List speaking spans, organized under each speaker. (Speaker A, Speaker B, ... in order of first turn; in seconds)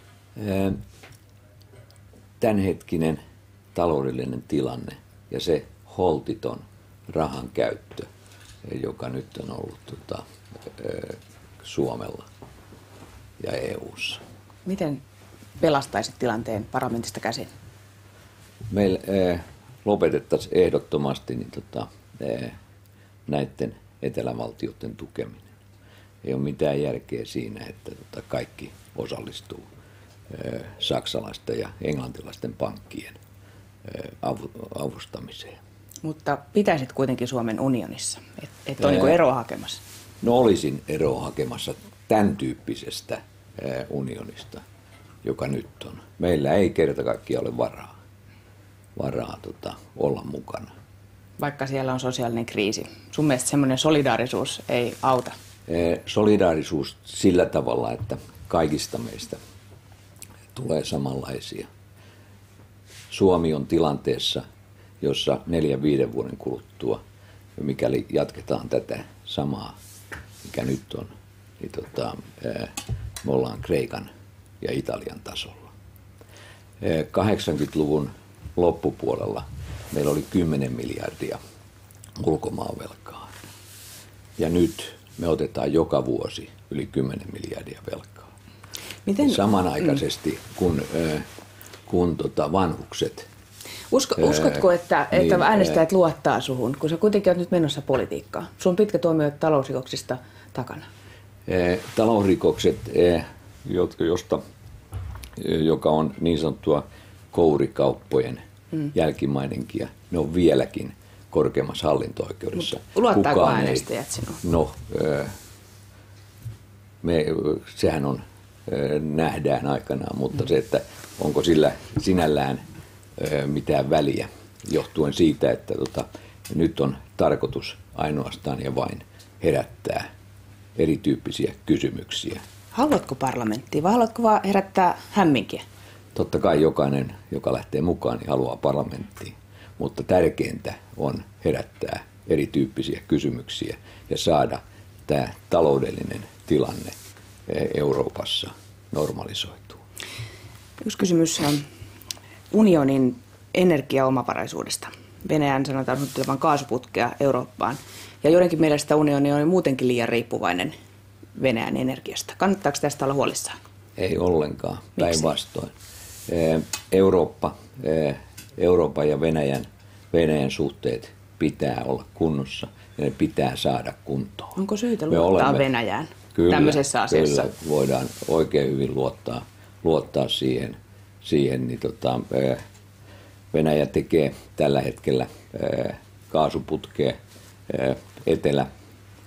Speaker A: 0.4-0.8, 2.4-3.2, 3.7-8.1, 8.7-12.3, 13.4-14.2, 18.7-22.6, 23.3-25.5, 26.2-29.6, 30.3-33.2, 33.8-35.6, 38.8-39.2, 40.2-44.6, 45.2-47.9, 49.0-50.7, 55.7-59.4, 60.5-61.7, 63.1-64.4, 65.0-67.0, 67.6-69.8, 70.4-74.1, 74.6-75.7, 76.8-81.4, 82.2-83.3, 84.4-88.3, 89.2-91.2, 91.9-93.3, 94.2-95.8, 101.5-104.4, 105.4-108.4, 108.9-113.9, 114.4-115.3, 117.0-122.6, 123.2-130.0, 130.8-132.4, 136.2-146.9, 147.5-149.8, 164.0-165.7, 166.3-174.6, 175.1-175.7, 176.3-182.6, 183.5-187.2, 187.7-188.7
Speaker B: 14.7-15.0, 15.6-17.5, 36.0-39.8, 51.4-55.3, 89.1-89.4, 93.9-100.9, 112.9-114.4, 132.7-135.6, 150.8-151.6, 152.5-160.7, 161.3-163.6, 165.0-165.3, 174.6-177.5